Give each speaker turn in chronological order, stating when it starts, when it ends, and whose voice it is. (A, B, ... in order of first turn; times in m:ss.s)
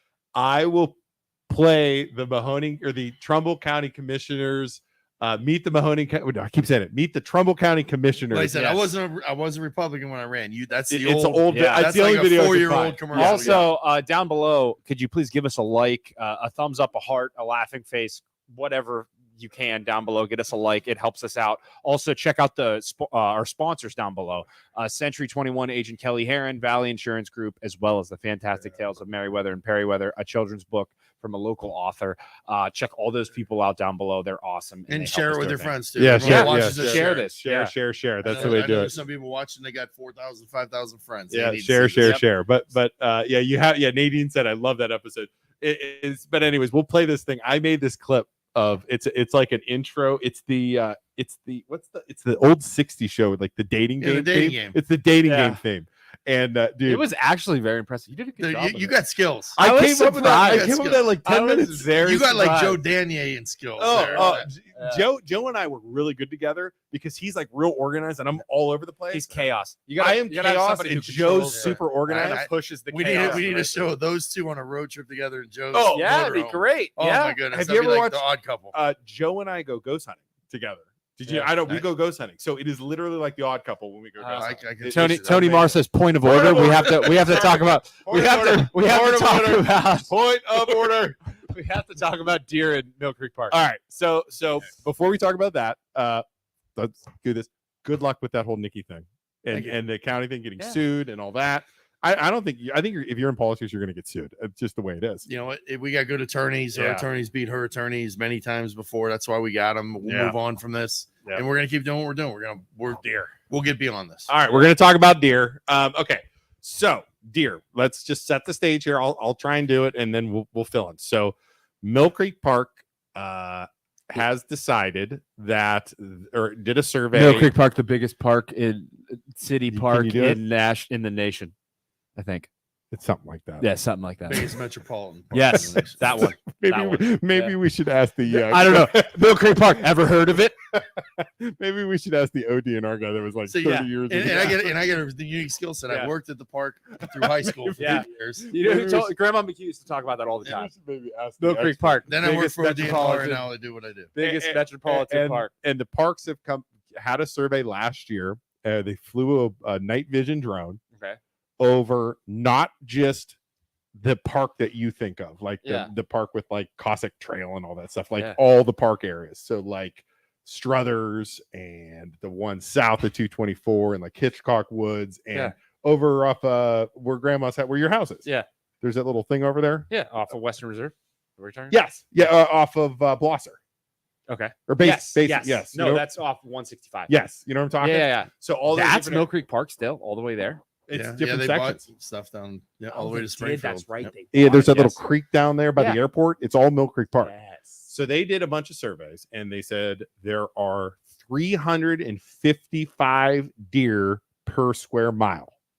0:00.4-0:01.0 A
0:01.5-0:08.7 A
0:08.3-0:13.7 B
0:10.9-0:13.7 A
0:11.5-0:11.9 C
0:13.1-0:38.7 C
0:34.9-0:37.3 B
0:36.0-0:39.0 A
0:38.2-0:42.2 B
0:41.3-0:57.1 A
0:54.0-0:54.8 B
0:55.2-0:55.6 C
0:56.9-0:59.0 C
0:58.4-0:59.6 B
0:59.6-1:02.8 C
0:59.6-1:01.9 A
1:00.3-1:01.1 B
1:01.9-1:04.5 B
1:03.8-1:12.5 A
1:03.9-1:05.1 C
1:09.1-1:13.9 C
1:11.4-1:18.7 B
1:13.0-1:13.5 A
1:15.7-1:16.2 A
1:15.9-1:17.4 C
1:17.5-1:31.2 A
1:21.3-1:21.9 B
1:24.2-1:30.1 C
1:24.3-1:25.7 B
1:31.5-1:33.6 C
1:33.5-1:36.2 A
1:36.8-1:45.3 A
1:39.5-1:39.8 B
1:45.3-1:54.3 B
1:46.8-1:47.1 A
1:50.0-1:50.4 A
1:54.3-2:07.5 A
2:07.1-2:11.5 C
2:09.7-2:10.4 A
2:12.2-2:12.5 C
2:12.9-2:13.7 A
2:13.6-2:14.5 C
2:14.3-2:16.2 B
2:15.3-2:17.6 C
2:16.5-2:20.0 A
2:18.3-2:20.6 C
2:20.7-2:24.8 A
2:23.5-2:28.5 B
2:27.1-2:29.1 A
2:27.8-2:30.7 C
2:30.4-2:32.2 A
2:31.4-2:33.5 C
2:32.1-2:34.1 B
2:34.2-2:35.5 C
2:34.2-2:40.8 A
2:40.9-2:41.2 C
2:41.6-2:43.4 A
2:44.0-2:58.2 A
2:45.6-2:45.9 C
2:58.8-2:59.9 A
2:59.9-3:01.8 C
3:01.7-3:03.6 A
3:04.3-3:07.1 C
3:04.7-3:06.0 A
3:07.1-3:09.3 A
3:07.8-3:10.6 C
3:10.9-3:11.8 A
3:10.9-3:14.1 B
3:12.9-3:15.0 C
3:14.3-3:17.3 A
3:15.8-3:16.0 C
3:17.2-3:17.9 C
3:17.9-3:25.5 A